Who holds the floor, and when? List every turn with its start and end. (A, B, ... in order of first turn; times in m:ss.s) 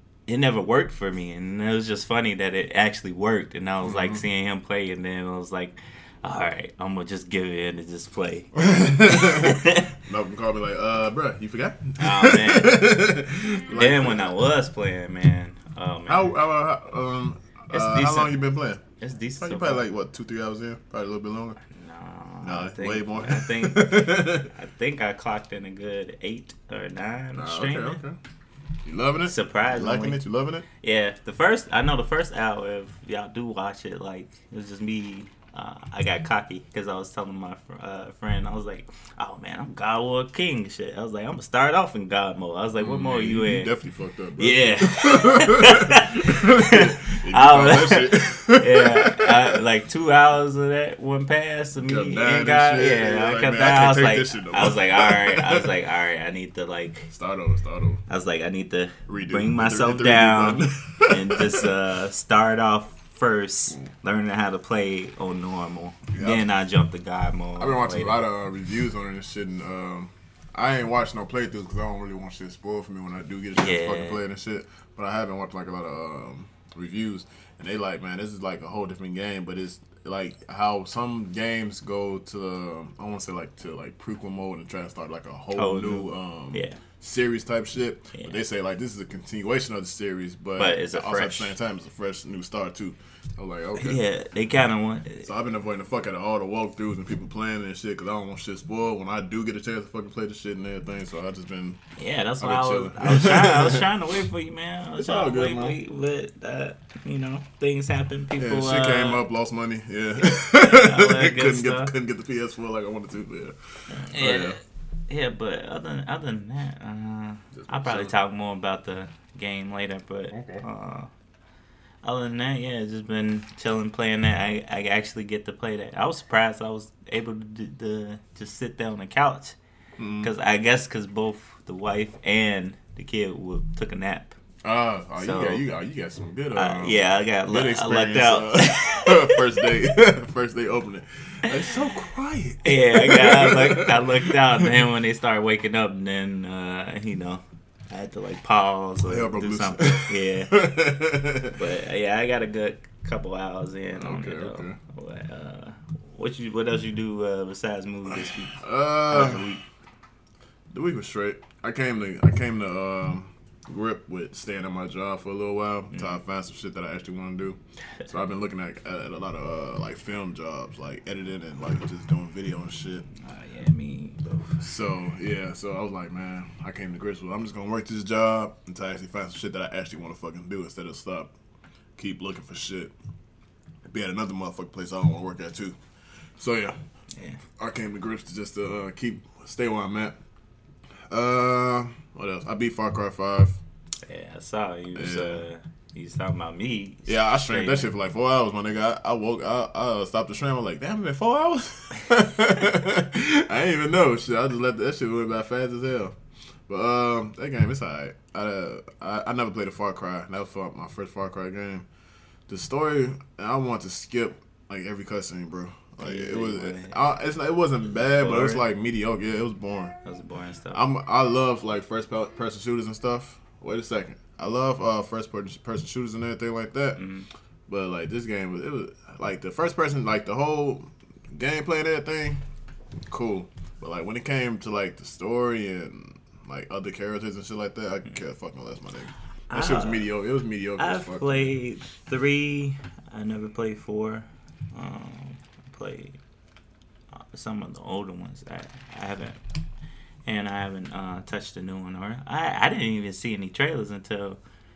0:00.3-0:09.9 A
0:03.8-0:04.2 B
0:08.6-0:14.2 B
0:12.0-0:13.0 A
0:13.7-0:16.3 A
0:16.1-0:18.8 B
0:17.7-0:18.4 A
0:19.0-0:19.8 A
0:19.4-0:21.6 B
0:21.7-0:28.0 A
0:22.4-0:24.5 B
0:27.3-0:28.2 B
0:28.8-0:30.6 B
0:29.2-0:30.2 A
0:30.7-0:43.7 A
0:42.8-0:49.6 B
0:44.4-0:57.1 A
0:51.8-0:55.7 B
0:57.1-0:58.0 B
0:58.1-1:08.2 A
0:59.1-1:01.7 B
1:06.1-1:06.4 B
1:07.6-1:34.0 B
1:13.6-1:14.2 A
1:25.5-1:26.8 A
1:30.6-1:31.5 A
1:33.7-1:35.3 A
1:35.2-1:41.8 B
1:42.0-1:49.2 A
1:42.4-1:43.9 B
1:45.0-1:45.8 B
1:48.4-1:54.6 B
1:50.6-1:51.9 A
1:53.9-2:01.1 A
1:57.5-1:58.1 B
2:00.3-2:00.6 B
2:02.0-2:09.6 A
2:10.0-2:10.3 B
2:10.2-2:14.3 A
2:14.6-2:24.6 B
2:15.2-2:15.6 A
2:16.5-2:19.9 A
2:22.6-2:30.6 A
2:29.0-2:31.5 B
2:31.5-2:39.6 A
2:33.9-2:34.8 B
2:38.1-2:39.6 B
2:40.7-2:53.1 B
2:45.9-2:46.2 A
2:53.2-2:54.6 A
2:54.6-3:01.3 B
3:02.0-3:02.9 B
3:03.8-3:05.8 B
3:06.4-3:06.8 B
3:07.1-3:07.4 A
3:07.6-3:10.2 B
3:11.1-3:13.6 B
3:14.0-3:17.9 A
3:14.9-3:15.4 B
3:17.1-3:26.2 B
3:26.7-3:31.9 B
3:32.5-3:40.0 B
3:36.0-3:37.0 A
3:37.9-3:38.6 A
3:40.0-3:40.8 A
3:40.7-3:47.0 B
3:47.0-3:47.3 A
3:47.7-3:52.4 B
3:53.1-4:01.6 B
3:59.5-4:00.1 A
4:00.8-4:06.2 A
4:07.1-4:09.4 A
4:10.2-4:14.4 A